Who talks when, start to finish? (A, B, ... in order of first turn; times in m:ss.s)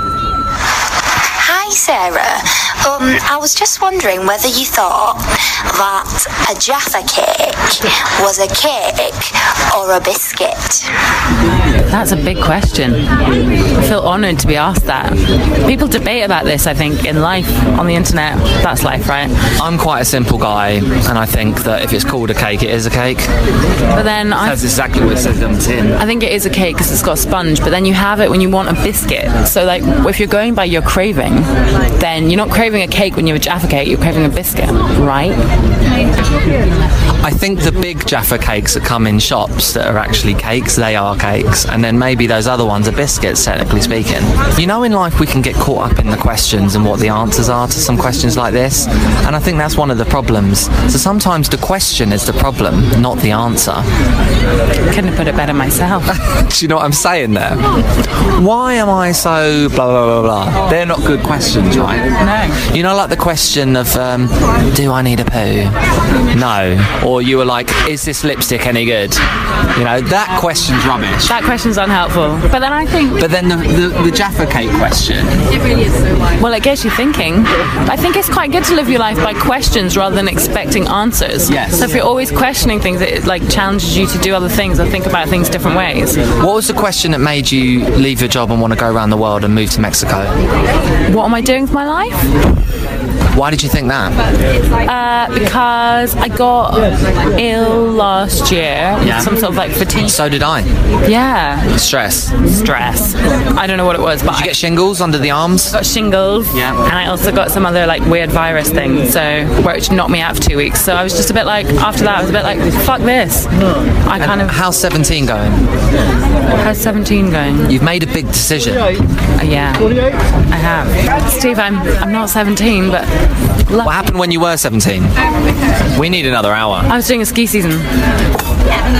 0:01.4-0:10.9 A
0:11.9-0:13.0 B
0:13.7-0:19.3 B
0:19.6-0:23.3 C
0:23.9-0:24.6 B
0:24.4-0:26.0 C
0:26.0-0:35.4 B
0:37.2-0:53.9 C
0:54.9-0:56.1 B
0:56.1-1:02.1 C
1:02.2-1:02.6 B
1:02.7-1:05.8 C
1:06.3-1:09.2 C
1:09.7-1:11.3 C
1:11.3-1:13.2 B
1:13.2-1:15.4 C
1:16.4-1:26.2 B
1:21.4-1:22.0 C
1:26.4-1:30.4 C
1:31.1-1:32.2 B
1:33.3-1:34.2 C
1:34.8-1:40.2 B
1:39.0-1:39.3 C
1:40.0-1:40.7 C
1:41.0-1:41.7 B
1:41.7-1:42.3 C
1:42.4-1:44.5 B
1:44.3-1:45.8 C
1:45.7-1:53.5 B
1:46.5-1:46.8 C
1:54.0-1:54.5 B
1:54.2-1:55.6 C
1:56.6-1:57.7 B
1:57.7-1:58.9 C
1:59.4-2:03.1 B
2:03.7-2:04.0 B
2:03.8-2:05.2 C
2:05.9-2:06.9 C
2:06.9-2:07.8 B